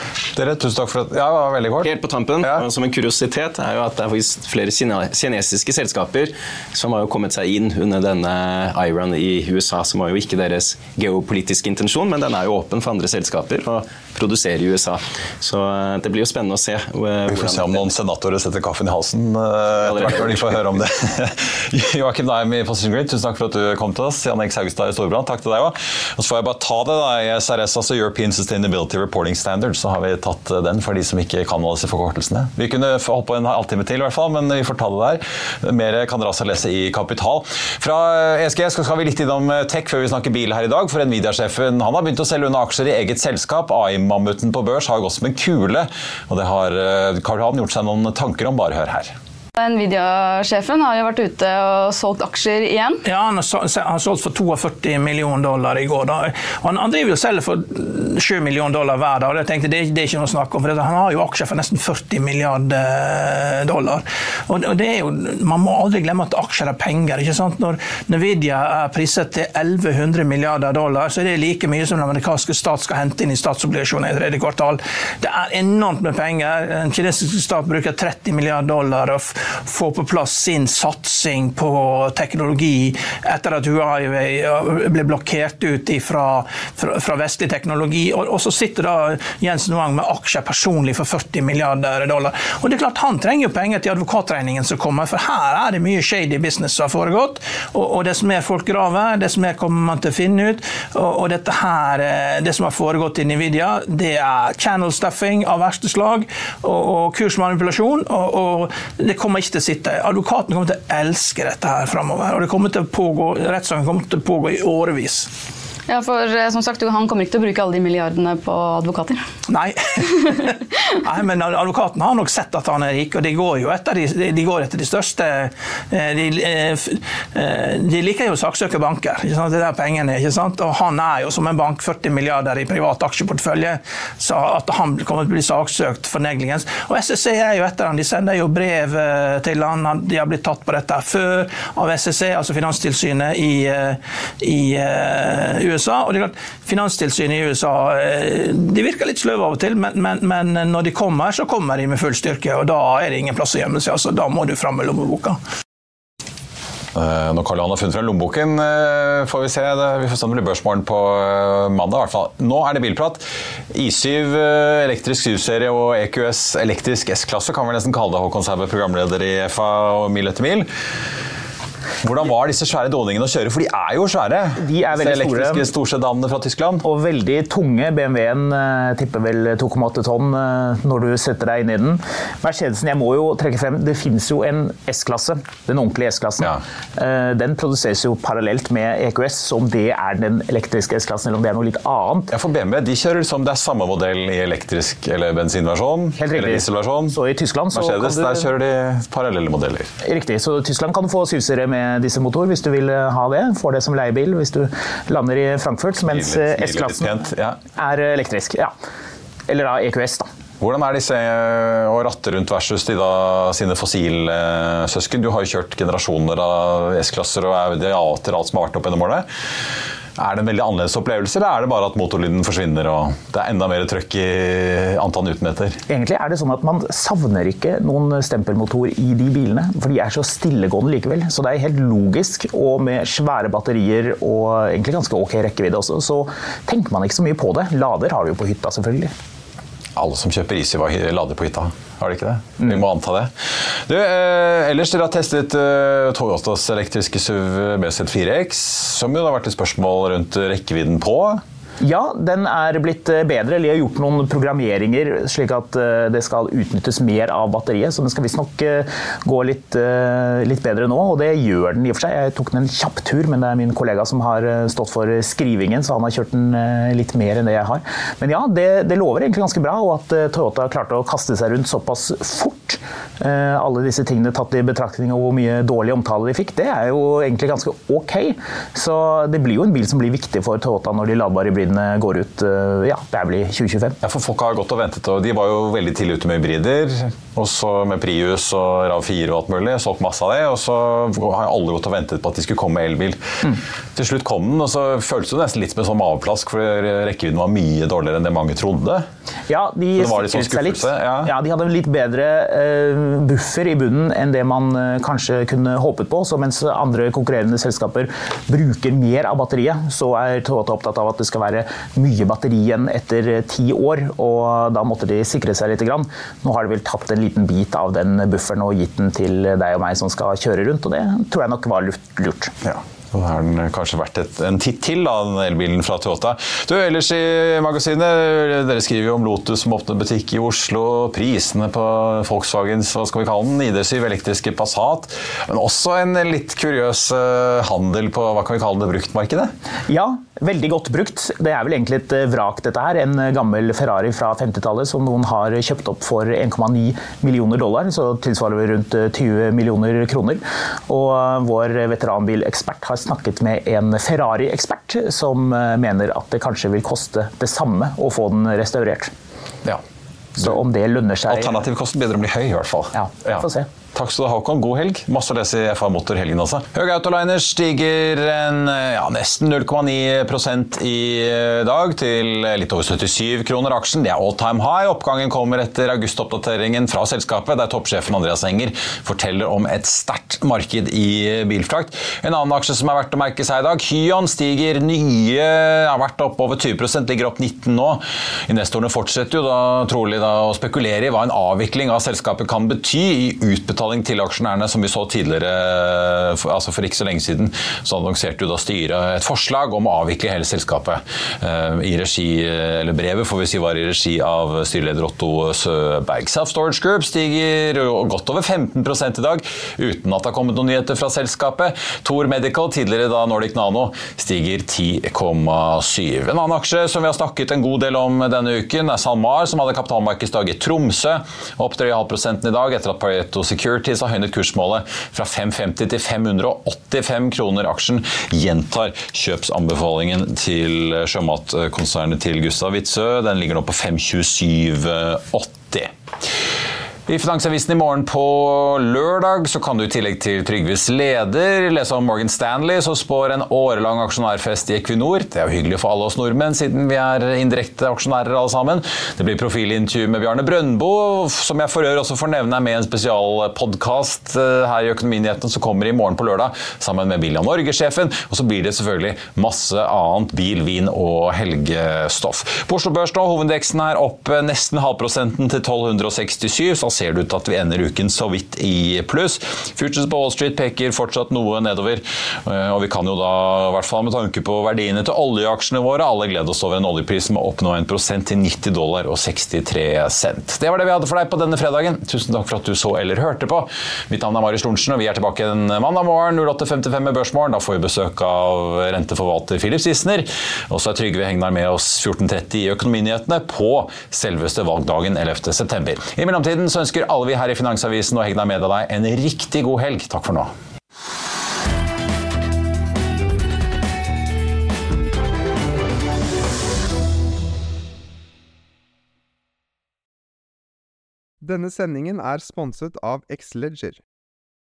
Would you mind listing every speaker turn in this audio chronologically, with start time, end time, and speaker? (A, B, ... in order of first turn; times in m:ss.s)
0:00.4-0:01.9 A
0:01.8-0:17.9 B
0:17.3-0:49.1 A
0:19.8-0:20.6 B
0:49.6-0:53.0 C
0:53.0-1:55.3 D
1:55.9-1:59.2 C
1:59.5-2:00.5 D
2:01.0-2:35.4 D
2:37.0-2:50.7 A
2:52.0-2:56.8 A
2:54.6-2:55.7 E
2:56.8-3:12.3 E
3:12.3-3:17.2 A
3:16.2-3:18.5 E
3:17.7-3:19.9 A
3:20.0-3:28.7 E
3:26.1-3:27.6 A
3:29.5-3:30.3 E
3:30.6-3:39.2 A
3:40.2-3:45.8 A
3:45.9-3:59.1 E
4:00.0-4:03.3 A
4:03.9-4:11.4 A
4:11.8-4:44.0 E
4:44.0-4:53.2 A
4:54.0-4:59.0 A
4:59.5-5:22.5 E
5:00.0-5:01.3 A
5:22.6-5:39.5 A
5:39.9-5:59.1 E
6:00.4-6:01.6 E
6:01.3-7:15.9 A
6:02.9-6:03.7 E
7:17.1-8:20.5 A
8:31.4-8:34.0 F